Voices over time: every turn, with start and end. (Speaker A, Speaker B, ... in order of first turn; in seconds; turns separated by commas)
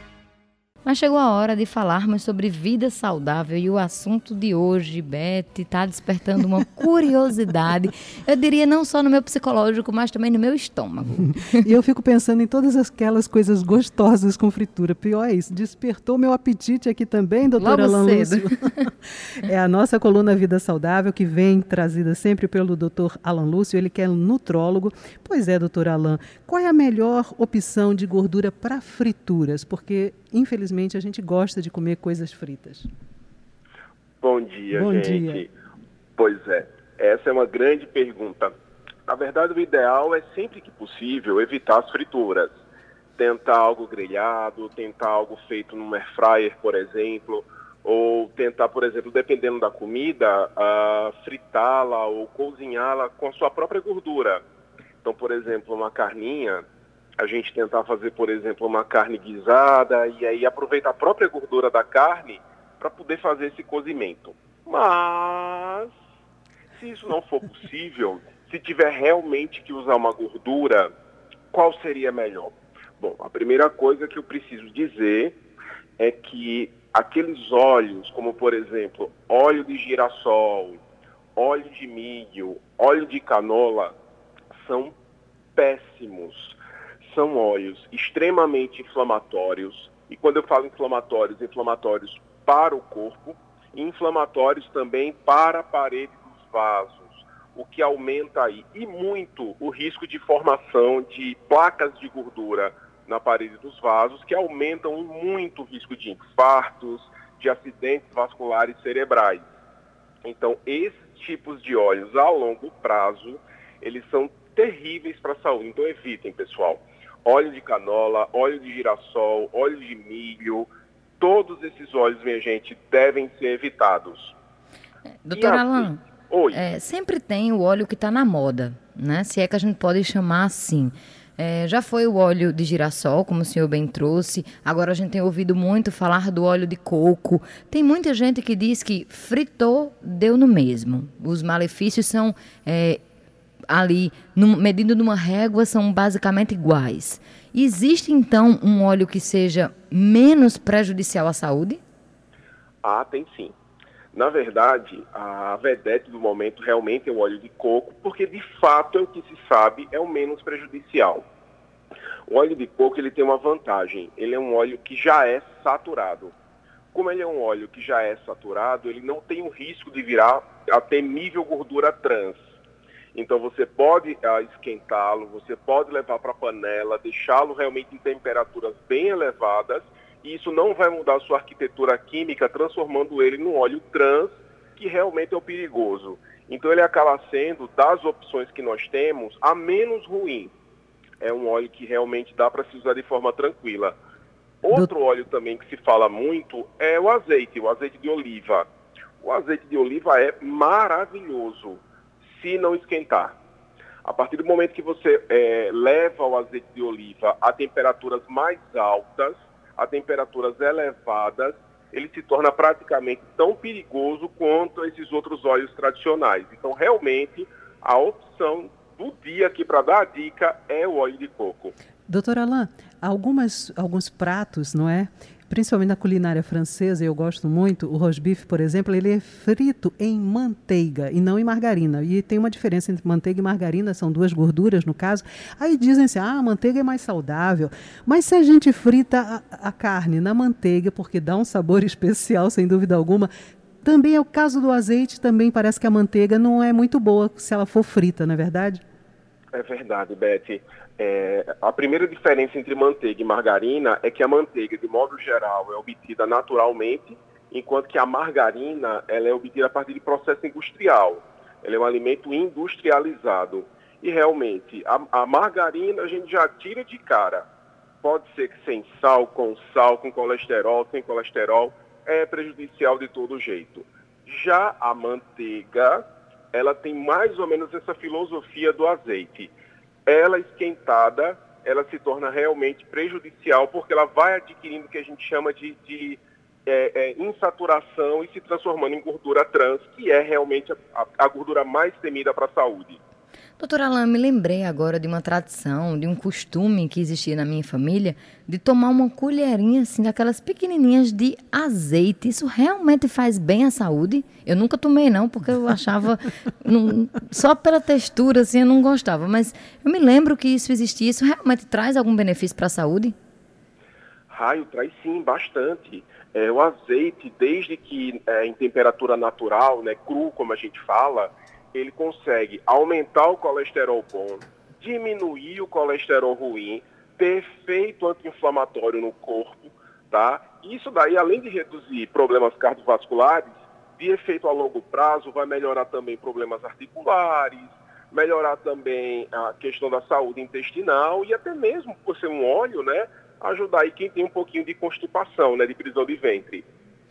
Speaker A: 0.8-11.6, Speaker B: 11.6-32.9, Speaker A: 17.6-18.9, Speaker C: 34.2-35.5, Speaker B: 34.7-35.4, Speaker C: 36.2-38.5, Speaker C: 39.1-42.5, Speaker C: 43.2-54.4, Speaker C: 55.0-56.6, Speaker C: 57.2-65.9, Speaker C: 66.8-70.9, Speaker C: 71.5-75.4, Speaker C: 76.0-80.8, Speaker C: 81.3-84.0, Speaker C: 84.5-84.9, Speaker C: 85.5-109.5, Speaker C: 110.2-124.3, Speaker A: 125.2-143.0, Speaker C: 125.3-126.6, Speaker A: 143.7-151.8, Speaker C: 152.8-153.5, Speaker C: 154.1-161.3, Speaker C: 162.3-166.3, Speaker C: 166.9-172.4, Speaker C: 173.1-190.5, Speaker C: 191.2-194.0, Speaker C: 194.6-198.7, Speaker C: 199.2-203.4, Speaker C: 204.0-221.7, Speaker B: 222.1-243.3, Speaker B: 243.8-248.8, Speaker C: 249.5-267.5, Speaker C: 268.0-279.5, Speaker C: 280.1-293.0, Speaker A: 293.6-313.1, Speaker C: 314.3-346.7